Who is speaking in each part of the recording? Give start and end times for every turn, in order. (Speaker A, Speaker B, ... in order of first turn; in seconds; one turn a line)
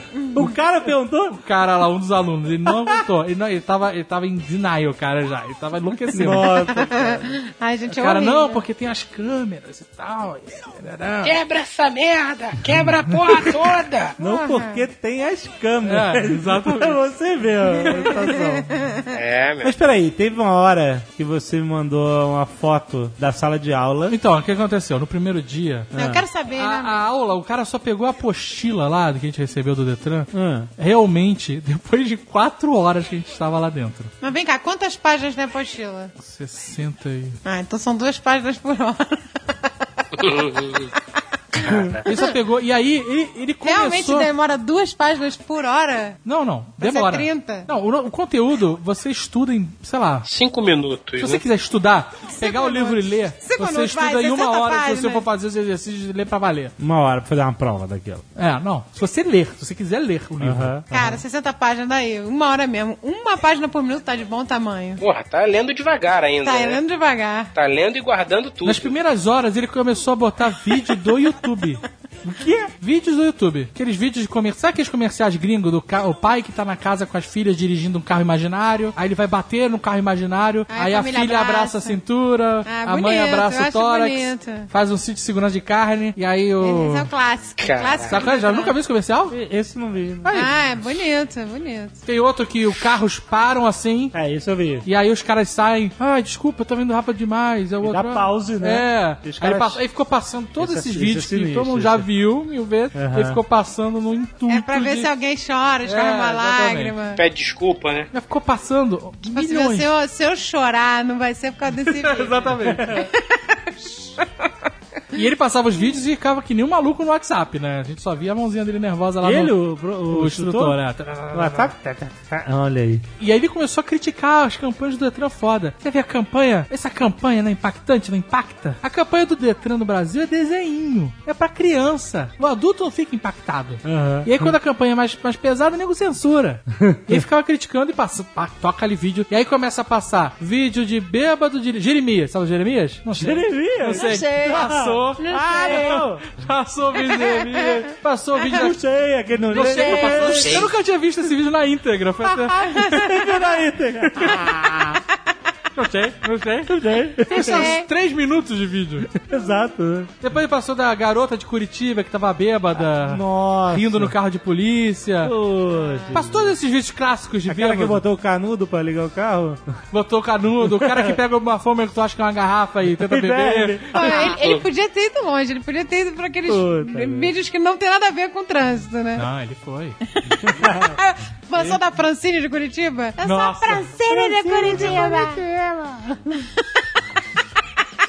Speaker A: 0.2-0.5
Speaker B: 0.3-1.4
Speaker C: 1.3-6.6
Speaker B: 6.1-7.3
Speaker A: 6.8-8.6
Speaker C: 7.9-11.4
Speaker D: 11.2-14.2
Speaker B: 14.2-18.7
Speaker A: 14.2-14.8
Speaker C: 15.8-17.1
Speaker A: 17.8-19.0
Speaker D: 19.1-19.7
Speaker B: 19.6-24.2
Speaker C: 24.1-25.9
Speaker B: 25.9-26.2
Speaker A: 25.9-27.0
Speaker C: 26.6-34.1
Speaker B: 30.3-30.7
Speaker A: 34.2-36.1
Speaker C: 36.2-37.4
Speaker A: 37.5-39.2
Speaker D: 40.1-40.9
Speaker B: 41.6-42.0
Speaker C: 41.8-44.3
Speaker A: 42.1-42.3
Speaker A: 43.6-46.2
Speaker C: 46.2-50.3
Speaker A: 46.8-47.7
Speaker D: 50.3-51.4
Speaker C: 51.2-56.7
Speaker A: 52.3-55.2
Speaker B: 56.8-58.2
Speaker C: 58.4-61.2
Speaker B: 60.4-61.2
Speaker A: 60.9-65.0
Speaker D: 65.0-66.8
Speaker A: 66.4-67.5
Speaker D: 67.5-69.0
Speaker C: 68.6-87.1
Speaker A: 80.7-82.0
Speaker A: 82.7-84.7
Speaker A: 86.6-88.7
Speaker D: 87.6-88.2
Speaker C: 88.1-89.4
Speaker B: 89.3-90.3
Speaker C: 90.2-90.5
Speaker A: 90.3-92.0
Speaker C: 92.0-94.2
Speaker B: 94.1-94.9
Speaker C: 94.8-105.1
Speaker B: 97.8-99.8
Speaker B: 100.6-102.1
Speaker B: 102.9-103.4
Speaker A: 104.5-107.2
Speaker C: 105.8-107.0
Speaker D: 107.1-108.1
Speaker C: 108.1-109.9
Speaker A: 109.2-114.3
Speaker C: 111.7-113.0
Speaker B: 112.7-113.1
Speaker C: 115.1-121.7
Speaker B: 119.2-120.8
Speaker B: 121.3-123.0
Speaker C: 123.2-148.8
Speaker B: 133.8-134.5
Speaker B: 136.8-137.2
Speaker B: 143.1-146.2
Speaker A: 144.0-144.6
Speaker A: 145.2-146.1
Speaker A: 147.0-147.9
Speaker B: 148.4-150.7
Speaker C: 149.5-153.1
Speaker A: 149.8-150.6
Speaker A: 152.6-153.4
Speaker B: 152.8-155.0
Speaker C: 155.8-159.1
Speaker B: 156.7-157.7
Speaker A: 157.3-157.9
Speaker B: 159.1-160.1
Speaker C: 160.2-165.4
Speaker B: 162.8-164.2
Speaker B: 165.2-166.6
Speaker A: 165.8-166.1
Speaker C: 166.1-168.0
Speaker B: 167.5-169.6
Speaker C: 169.9-174.2
Speaker B: 170.6-171.2
Speaker B: 172.9-174.4
Speaker A: 173.9-179.3
Speaker B: 176.5-177.3
Speaker C: 179.2-180.0
Speaker A: 180.2-185.4
Speaker B: 180.4-181.0
Speaker C: 183.2-183.9
Speaker B: 184.1-186.4
Speaker C: 184.6-185.0